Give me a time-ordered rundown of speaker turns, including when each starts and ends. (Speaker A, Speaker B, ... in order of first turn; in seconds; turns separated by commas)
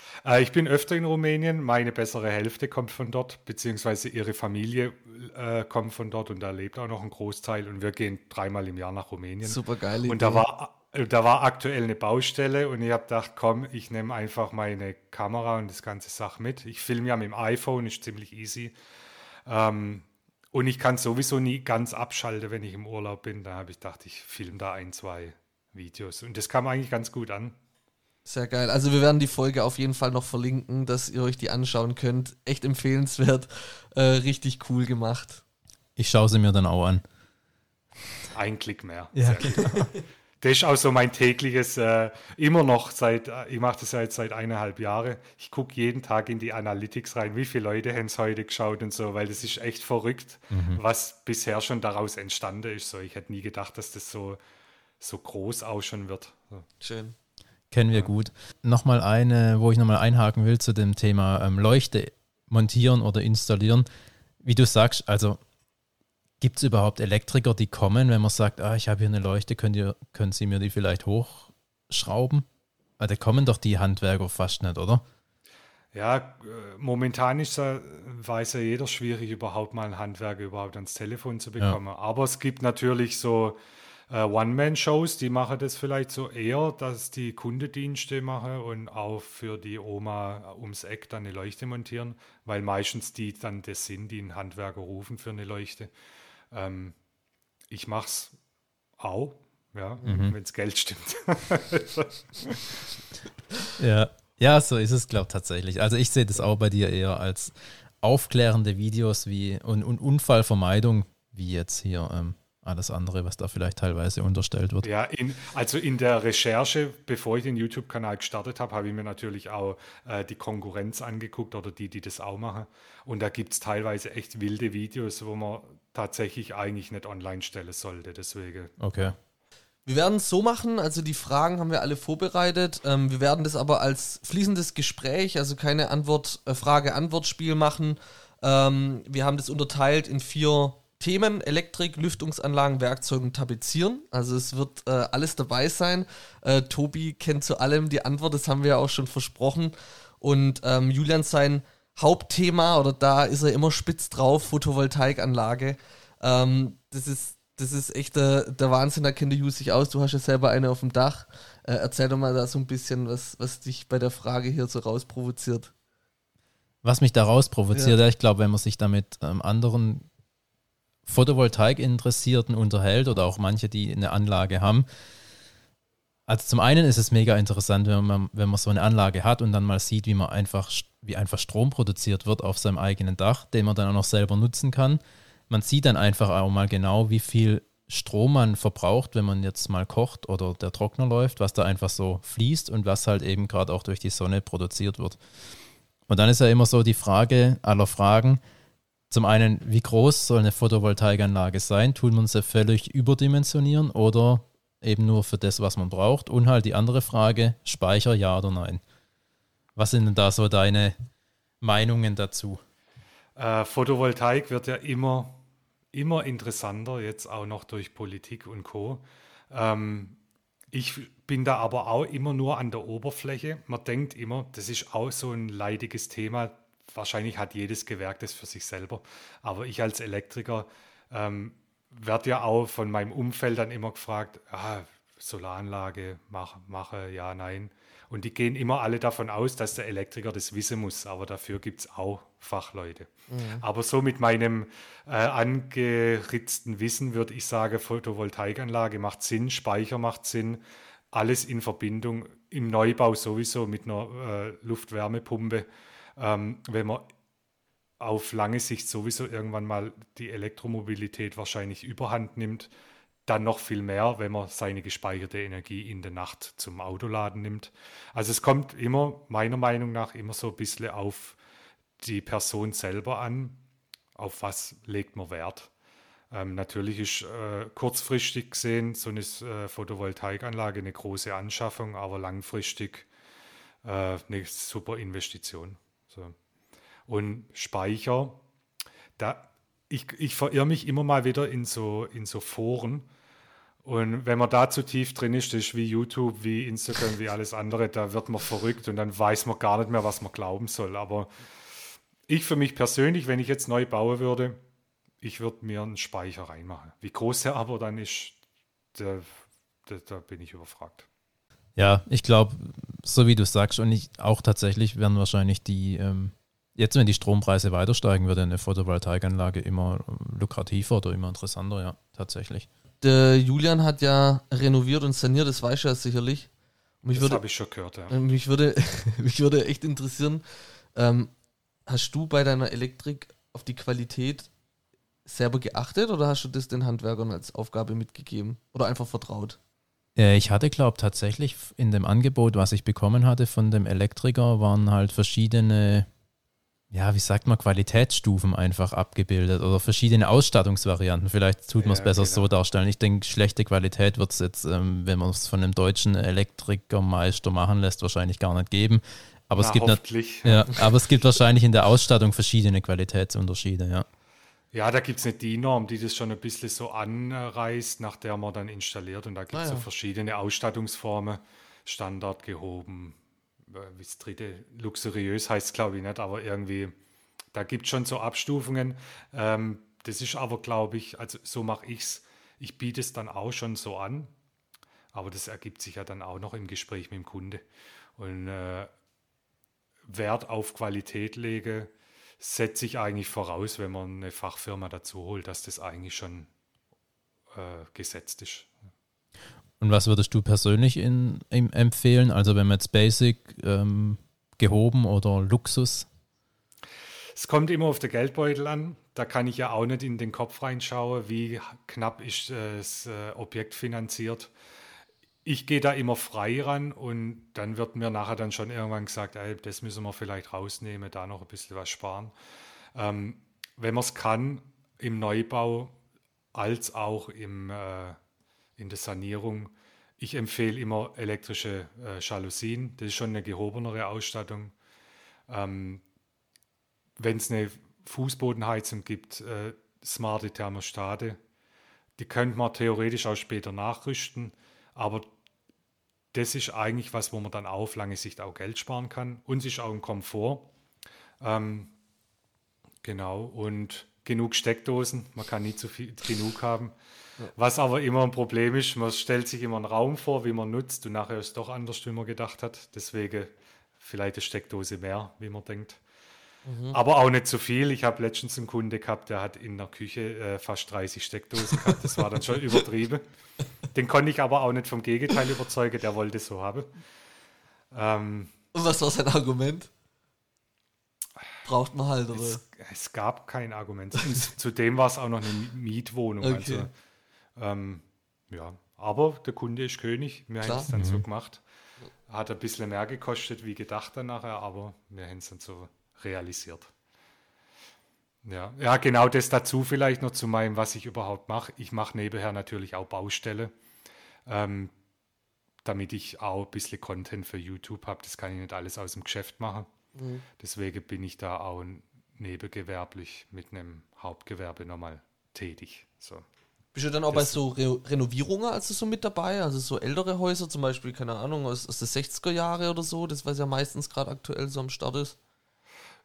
Speaker A: 0.2-18.7, Speaker B: 9.4-10.4, Speaker A: 19.4-27.6, Speaker B: 28.2-35.4, Speaker C: 36.0-37.0, Speaker A: 38.3-54.4, Speaker C: 39.1-39.9, Speaker C: 50.5-50.8, Speaker A: 55.0-56.7, Speaker B: 56.8-57.1, Speaker C: 57.7-63.9, Speaker C: 64.4-65.4, Speaker C: 66.4-72.5, Speaker C: 73.0-75.0, Speaker A: 75.9-83.6, Speaker A: 84.1-95.9, Speaker A: 96.5-97.0, Speaker A: 97.7-98.3, Speaker A: 99.0-102.9, Speaker C: 100.0-100.3, Speaker C: 103.8-114.9, Speaker A: 114.8-128.7, Speaker C: 128.8-129.2, Speaker B: 129.8-165.7, Speaker C: 166.8-170.1, Speaker C: 171.1-174.8, Speaker C: 176.3-195.2, Speaker C: 196.1-198.4, Speaker C: 199.1-208.8, Speaker C: 209.8-210.9, Speaker C: 211.6-212.6, Speaker A: 213.3-215.4, Speaker A: 215.9-220.2, Speaker A: 220.7-257.1, Speaker B: 243.3-243.6, Speaker A: 258.0-262.7, Speaker A: 263.2-271.4, Speaker A: 272.0-273.6, Speaker A: 274.1-275.7, Speaker A: 276.3-283.1, Speaker A: 283.8-286.3, Speaker A: 287.1-288.4, Speaker A: 289.2-293.1, Speaker A: 293.8-301.3, Speaker A: 302.3-304.6, Speaker A: 305.2-308.4, Speaker A: 308.9-311.1, Speaker C: 311.8-322.7, Speaker B: 323.0-326.5, Speaker B: 327.0-327.4, Speaker A: 327.1-328.1, Speaker B: 328.1-330.4, Speaker B: 330.9-331.3, Speaker B: 331.9-334.5, Speaker B: 335.2-339.6, Speaker C: 340.1-346.1, Speaker C: 346.9-364.1, Speaker A: 351.8-352.5, Speaker A: 359.6-361.1, Speaker A: 364.7-373.2, Speaker B: 369.5-369.8, Speaker A: 373.7-376.9, Speaker A: 377.5-384.3, Speaker A: 385.1-387.6, Speaker A: 388.2-388.9, Speaker A: 390.1-396.5, Speaker A: 397.5-398.7, Speaker C: 399.8-406.1, Speaker A: 407.3-414.5, Speaker A: 415.4-422.3, Speaker A: 422.9-425.9, Speaker A: 426.5-428.2, Speaker A: 428.8-434.7, Speaker A: 435.5-436.0, Speaker A: 437.2-441.4, Speaker A: 442.2-445.3, Speaker A: 446.3-450.7, Speaker A: 451.4-451.9, Speaker A: 453.0-456.9, Speaker A: 457.5-466.0, Speaker B: 466.6-467.0, Speaker A: 466.9-473.2, Speaker B: 471.7-472.0, Speaker A: 473.9-476.9, Speaker A: 477.9-478.5, Speaker B: 478.7-479.9, Speaker B: 481.6-482.6, Speaker A: 482.3-486.9, Speaker B: 486.4-486.9, Speaker A: 487.6-491.6, Speaker B: 490.6-490.9, Speaker C: 490.9-491.2, Speaker A: 492.3-496.9, Speaker A: 498.4-503.7, Speaker A: 504.5-504.9, Speaker A: 505.8-509.9, Speaker B: 510.1-510.4, Speaker A: 510.6-516.4, Speaker B: 516.9-525.4, Speaker A: 517.3-517.6